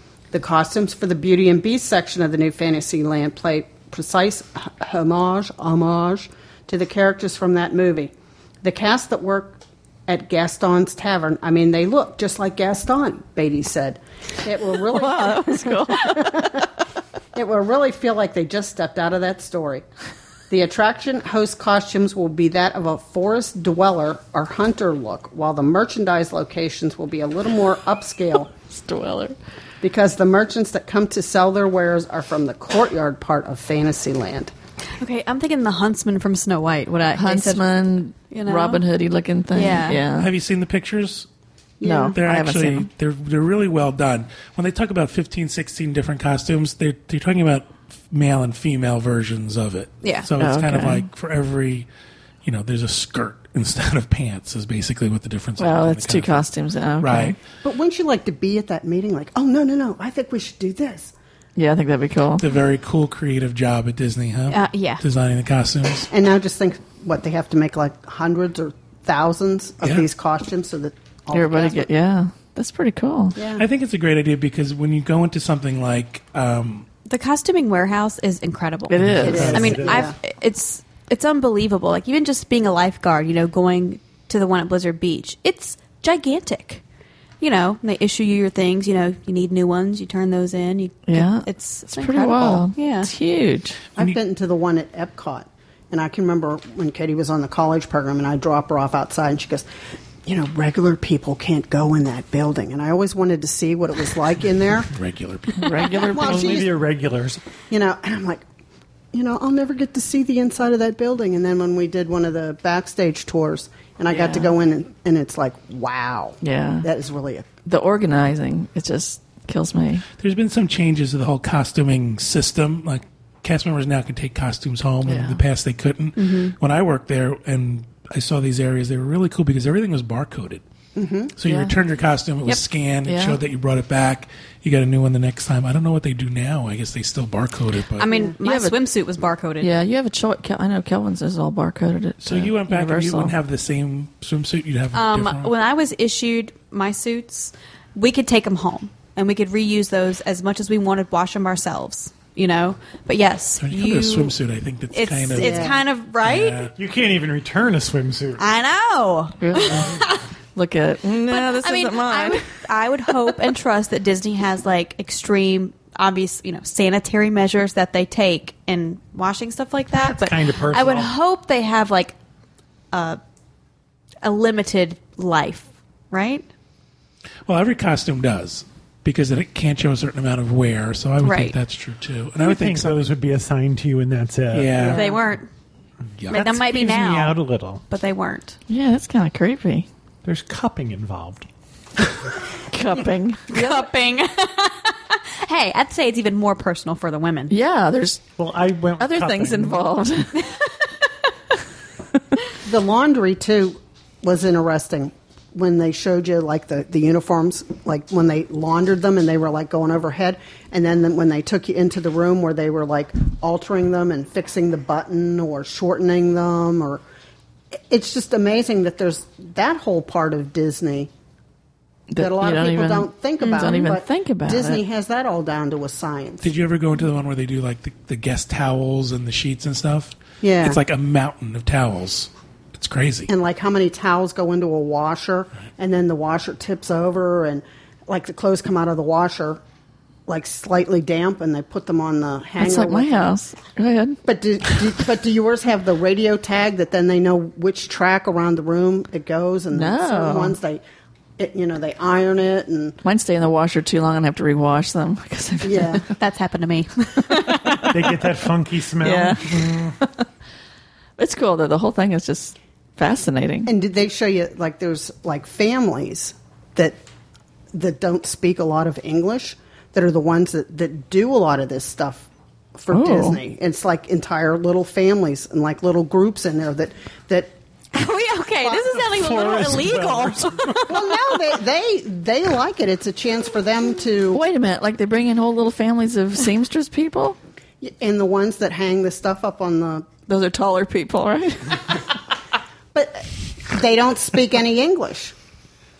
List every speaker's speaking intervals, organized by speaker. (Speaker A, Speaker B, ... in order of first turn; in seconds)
Speaker A: 0.3-16.7, 17.3-19.8, 20.5-28.5, 29.8-34.5, 41.8-42.2, 57.6-61.1, 66.1-71.9, 73.3-73.6, 79.2-80.2, 94.0-99.7, 100.2-104.9, 106.1-106.7, 107.7-108.4, 109.1-117.5, 130.9-131.3, 138.1-138.3, 155.3-155.8, 184.8-185.1, 202.6-217.0, 217.9-221.1, 222.2-226.5, 230.4-230.8, 233.3-239.6, 240.3-243.3, 244.2-250.8, 251.4-253.0, 255.6-256.0, 263.6-267.0, 267.7-277.5, 280.9-284.4, 287.8-290.1, 292.9-295.3
Speaker B: 14.8-16.7, 28.7-29.4, 37.1-40.3, 41.8-42.9, 50.4-51.0, 55.6-57.4, 61.5-62.4, 71.3-73.4, 78.9-79.6, 91.1-93.8, 105.6-106.7, 114.1-114.5, 116.4-116.9, 117.6-120.0, 125.0-125.4, 131.4-131.7, 133.1-133.4, 138.4-138.7, 139.6-143.3, 159.4-160.0, 160.5-163.1, 188.7-189.9, 192.7-193.8, 197.5-198.2, 199.0-200.5, 222.1-224.8, 242.6-244.2, 249.7-250.6, 253.0-256.1, 259.0-260.2, 261.2-263.7, 272.9-273.4, 284.3-287.4, 290.3-292.0
Speaker C: 35.0-38.8, 39.5-40.0, 50.0-50.3, 64.5-65.0, 77.0-86.8, 87.4-93.1, 126.2-126.5, 138.0-139.7, 144.9-154.3, 154.9-156.7, 158.4-160.2, 161.3-172.1, 172.9-173.2, 174.2-176.5, 181.2-181.6, 184.8-185.5, 186.3-187.4, 187.9-188.6, 193.5-197.5, 223.4-223.8, 256.2-258.0, 277.9-281.0
Speaker D: 40.1-41.3, 42.1-51.9, 52.4-56.4, 57.0-57.4, 62.4-66.1, 69.8-70.1, 73.6-76.8, 104.9-105.9, 120.2-130.6, 131.4-138.1, 142.2-145.5, 153.6-156.7, 177.4-183.1, 184.5-185.1, 186.2-186.5, 226.4-233.3
Speaker E: 79.0-80.1, 105.8-107.4, 156.8-158.4, 170.0-171.1, 182.4-184.9, 186.3-187.8, 190.2-191.5, 198.4-199.8, 257.9-260.0, 278.9-280.9